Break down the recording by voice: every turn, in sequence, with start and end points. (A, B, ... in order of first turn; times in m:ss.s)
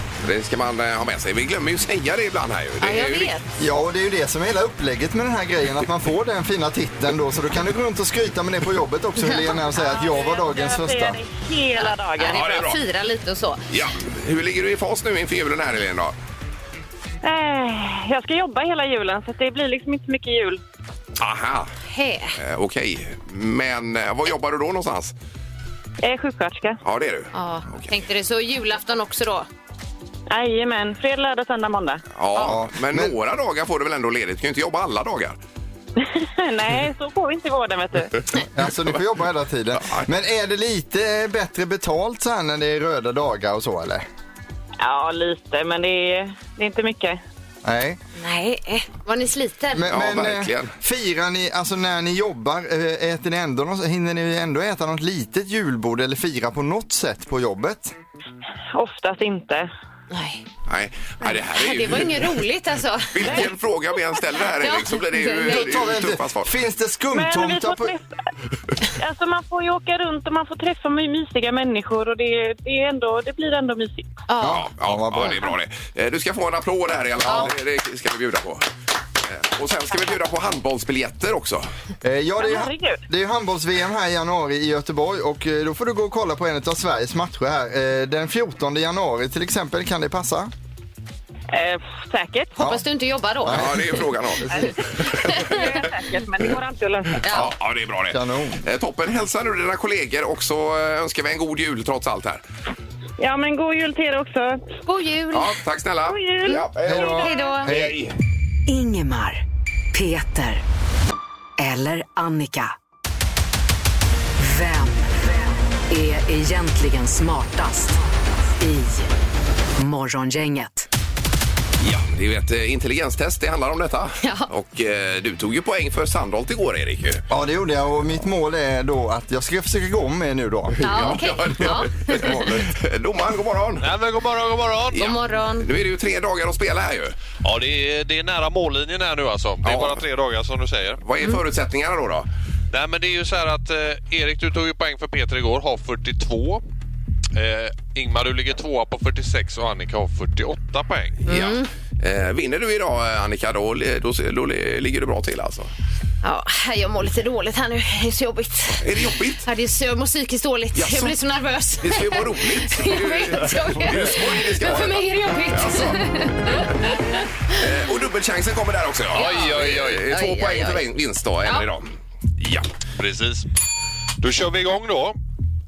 0:00.2-0:03.3 A
0:02.8-0:03.4 B
0:03.6-0:11.2 C
0:09.2-0:10.1 B
0:10.0-0:12.5 D
0:11.8-0:13.6 B
0:12.3-0:12.8 A
0:13.7-0:16.1 A
0:17.2-0:20.6 D
0:21.2-0:21.7 A
0:21.9-0:22.4 B
0:22.4-0:25.1 A
0:26.0-0:26.8 D
0:26.8-0:27.9 A
0:27.3-0:29.5 B
0:30.3-0:32.0 D
0:32.2-0:35.4 A
0:32.4-0:33.2 C
0:36.0-0:38.2 D
0:38.5-0:44.0 C
0:39.8-0:40.1 A
0:44.8-0:47.2 D
0:47.6-0:48.0 C
0:48.2-0:49.9 B
0:49.7-0:57.9 C
0:49.9-0:50.7 A
0:58.8-0:59.7 D
1:00.1-1:00.4 B
1:00.7-1:02.4 A
1:01.2-1:03.5 B
1:03.1-1:06.5 A
1:04.6-1:05.8 B
1:05.4-1:07.9 C
1:07.1-1:08.1 D
1:09.0-1:14.2 D
1:14.3-1:14.6 B
1:14.4-1:15.4 C
1:14.4-1:18.7 A
1:19.3-1:21.7 A
1:22.0-1:30.5 C
1:22.4-1:23.0 D
1:31.5-1:32.6 D
1:32.6-1:32.8 C
1:32.6-1:33.8 B
1:33.4-1:34.8 C
1:33.5-1:34.6 A
1:34.5-1:37.3 D
1:35.1-1:35.7 B
1:37.2-1:37.5 B
1:37.3-1:42.4 A
1:38.1-1:38.6 C
1:43.2-1:44.7 D
1:44.8-1:45.5 B
1:45.3-1:48.1 A
1:46.1-1:47.1 D
1:46.8-1:48.0 C
1:47.2-1:47.7 B
1:48.7-1:49.4 E
1:49.9-1:50.6 E
1:51.6-1:52.7 E
1:54.4-1:59.1 E
1:59.8-2:00.9 E
2:01.8-2:07.2 A
2:04.2-2:04.5 B
2:07.3-2:11.2 C
2:10.8-2:13.9 A
2:10.8-2:12.5 B
2:13.8-2:15.1 F
2:14.9-2:15.7 B
2:15.6-2:17.2 A
2:17.4-2:21.0 F
2:19.6-2:20.0 A
2:21.0-2:22.3 A
2:22.7-2:26.6 F
2:27.3-2:31.2 F
2:31.3-2:35.7 A
2:31.3-2:31.7 B
2:36.2-2:47.6 B
2:38.8-2:39.5 A
2:40.8-2:41.2 A
2:41.8-2:46.8 A
2:47.5-2:52.7 A
2:49.1-2:50.8 B
2:49.2-2:50.0 F
2:53.0-2:53.5 F
2:54.2-2:55.2 F